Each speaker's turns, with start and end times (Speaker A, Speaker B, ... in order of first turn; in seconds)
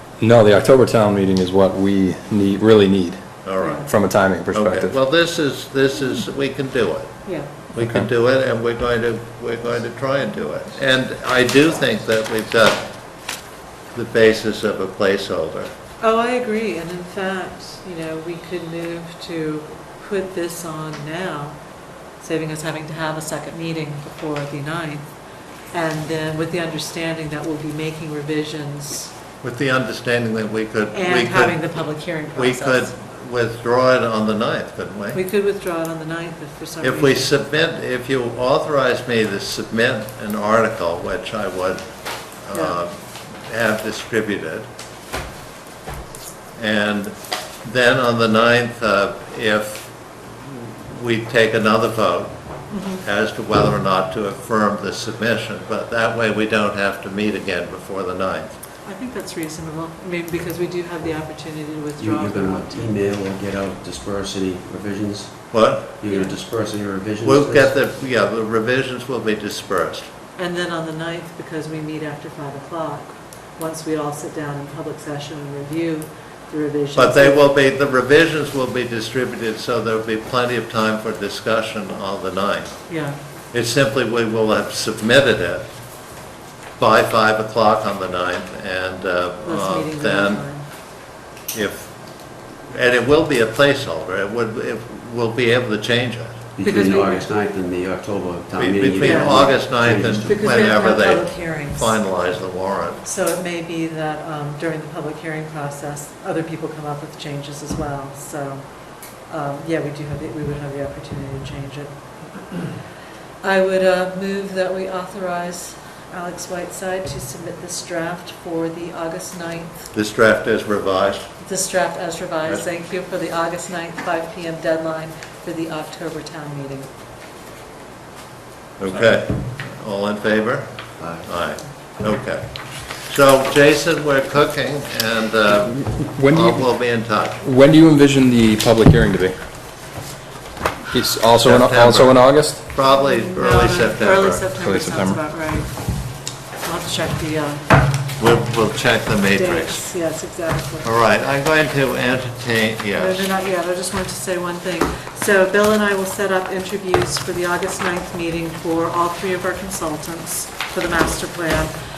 Speaker A: 0.2-3.2, 3.9-5.0, 7.8-8.1, 136.2-136.8, 137.4-139.3, 140.9-142.6, 144.6-145.2
Speaker B: 3.4-3.9, 4.5-7.2, 7.7-12.8, 13.9-15.7, 29.4-31.7, 32.3-35.2, 36.8-41.8, 42.4-42.9, 43.4-44.7, 46.6-49.9, 50.4-52.4, 53.0-58.5, 65.5-66.0, 67.2-70.1, 77.0-82.8, 83.5-85.7, 86.8-90.5, 91.5-91.9, 92.7-96.4, 98.5-103.0, 119.9-121.3, 128.8-130.7, 131.2-132.4, 133.0-137.4, 141.4-144.4, 148.2-149.8, 150.8-153.3
Speaker C: 3.6-3.9, 16.0-21.6, 22.2-25.1, 25.7-29.1, 30.9-32.9, 35.1-37.3, 42.5-42.8, 52.7-53.0, 58.8-62.9, 66.0-66.3, 70.4-77.5, 82.9-83.2, 89.4-90.7, 96.6-97.3, 99.0-99.4, 100.2-102.0, 103.0-108.7, 109.2-111.9, 113.4-119.9, 121.4-126.9, 142.8-145.7, 146.6-147.6, 149.3-150.9, 152.9-161.7
Speaker D: 62.0-67.7, 96.5-100.4, 131.0-131.3